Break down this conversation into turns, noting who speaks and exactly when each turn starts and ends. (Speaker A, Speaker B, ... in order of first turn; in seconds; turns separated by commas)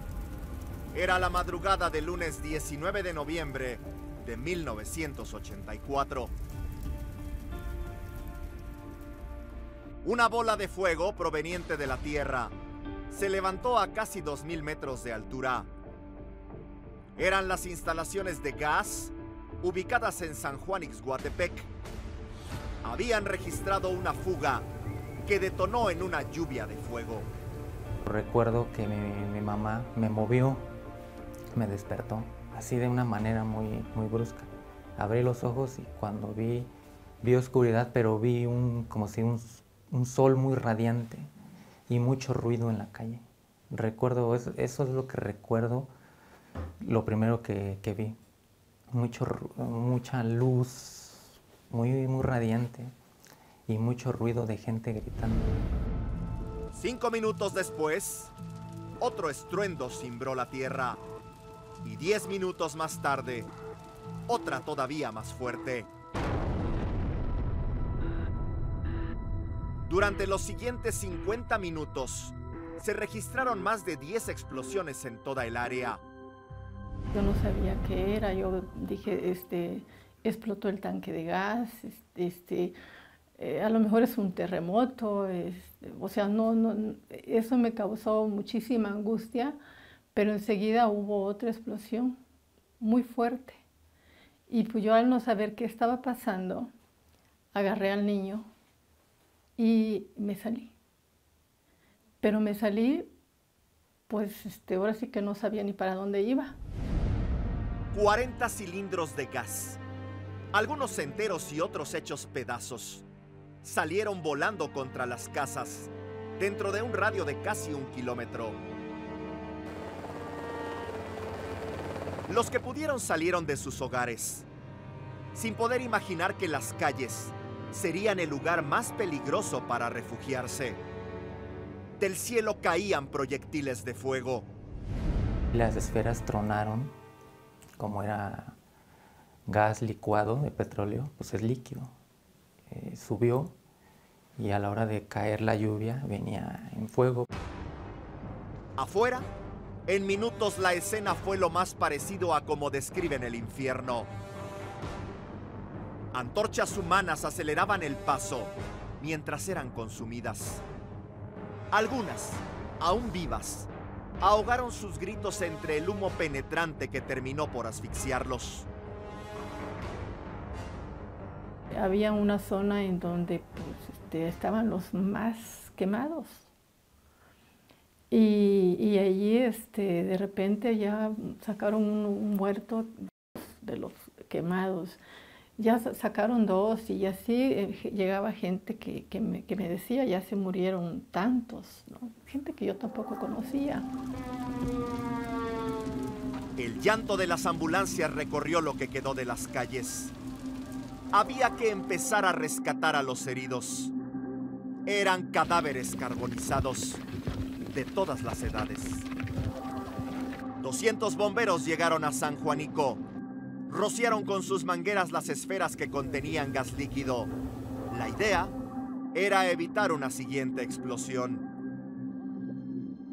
Speaker A: 0.9-6.3, Speaker A: 10.0-12.5, Speaker A: 13.1-15.7, Speaker A: 17.2-21.7, Speaker A: 22.8-24.7, Speaker A: 25.2-27.3, Speaker B: 28.0-30.7, Speaker B: 31.5-36.7, Speaker B: 37.2-41.3, Speaker B: 41.9-45.9, Speaker B: 46.8-48.2, Speaker B: 48.9-52.9, Speaker B: 53.7-55.5, Speaker A: 56.7-58.3, Speaker A: 59.0-61.0, Speaker A: 61.8-63.5, Speaker A: 64.3-65.9, Speaker A: 69.9-76.0, Speaker C: 77.1-82.8, Speaker C: 83.4-89.6, Speaker C: 90.1-92.2, Speaker C: 92.8-93.6, Speaker C: 94.5-96.7, Speaker C: 97.5-98.5, Speaker C: 99.6-100.8, Speaker C: 102.2-103.1, Speaker C: 104.1-106.6, Speaker A: 107.9-109.8, Speaker A: 110.5-113.1, Speaker A: 113.6-118.6, Speaker A: 122.3-124.5, Speaker A: 125.3-130.8, Speaker A: 132.0-134.5, Speaker B: 135.5-137.0, Speaker B: 137.8-138.6, Speaker B: 139.5-141.9, Speaker B: 142.7-143.6, Speaker B: 144.4-147.3, Speaker A: 148.8-149.3, Speaker A: 149.9-154.1, Speaker A: 156.1-160.6, Speaker A: 161.7-163.7, Speaker A: 164.2-168.7, Speaker C: 171.7-176.5, Speaker C: 178.1-185.0, Speaker C: 185.6-193.9, Speaker A: 196.6-200.1, Speaker A: 201.1-203.9, Speaker A: 204.8-207.0, Speaker A: 207.7-209.1, Speaker A: 210.6-213.0, Speaker A: 213.7-217.3, Speaker A: 217.9-218.6, Speaker A: 219.1-221.4